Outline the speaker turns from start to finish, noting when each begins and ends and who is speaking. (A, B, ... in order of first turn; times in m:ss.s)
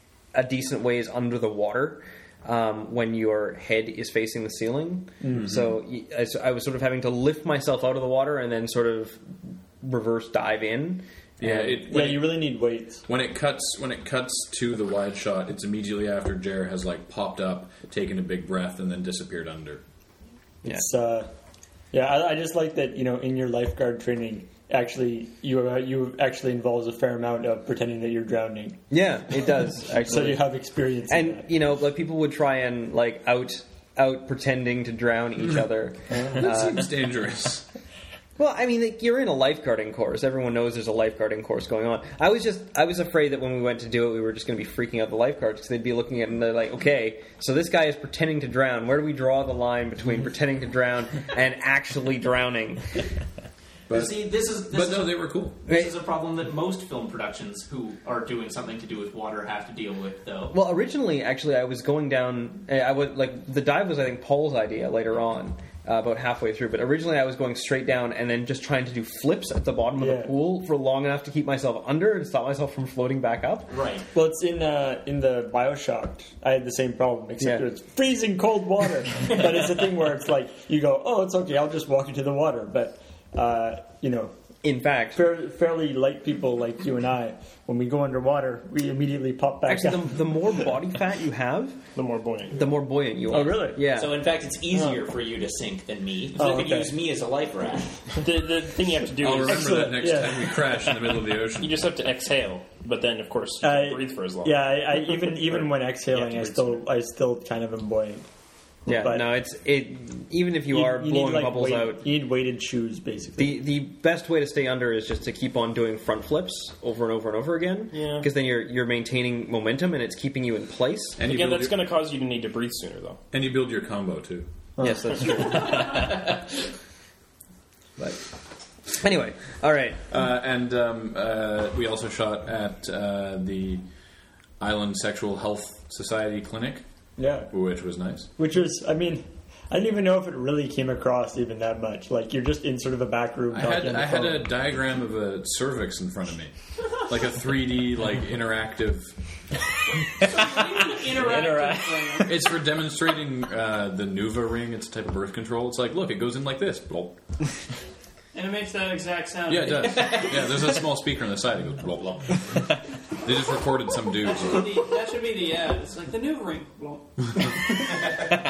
0:00.3-0:09.2 A
0:05.2-0:05.5 B
0:05.3-0:05.6 C
0:09.8-0:11.7 A
0:11.4-0:12.5 C
0:11.7-0:13.0 B
0:13.0-0:19.8 C
0:20.6-0:21.3 B
0:21.9-0:28.8 B
0:28.9-0:30.5 A
0:29.8-0:31.5 B
0:31.1-0:36.8 A
0:36.2-0:37.6 C
0:38.4-0:53.0 A
0:53.9-0:55.6 C
0:53.9-1:00.5 D
0:55.7-0:55.9 A
1:00.5-1:13.7 A
1:10.0-1:10.3 B
1:13.7-1:14.1 D
1:14.1-1:24.3 B
1:17.4-1:17.6 A
1:24.6-1:25.2 A
1:25.1-1:30.6 B
1:29.6-1:31.8 A
1:31.9-1:32.7 E
1:32.5-1:34.2 A
1:33.3-1:33.8 B
1:33.9-1:38.2 D
1:34.7-1:35.0 B
1:36.3-1:36.9 B
1:38.2-1:40.0 E
1:39.2-1:41.8 C
1:39.4-1:40.5 B
1:41.6-1:46.8 E
1:43.6-1:48.2 B
1:48.8-1:52.0 A
1:48.9-1:49.3 B
1:50.7-1:53.6 B
1:53.4-2:01.2 A
1:57.9-1:58.3 E
2:01.2-2:01.8 C
2:01.2-2:03.2 E
2:03.3-2:04.5 C
2:04.8-2:05.3 B
2:04.8-2:06.2 A
2:08.9-2:10.0 A
2:10.1-2:13.8 C
2:14.6-2:16.8 C
2:17.2-2:17.5 B
2:17.5-2:18.3 C
2:18.4-2:24.5 B
2:23.5-2:29.2 C
2:30.1-2:32.4 F
2:32.2-2:37.2 C
2:38.3-2:40.4 F
2:39.5-2:44.8 C
2:44.2-2:48.0 F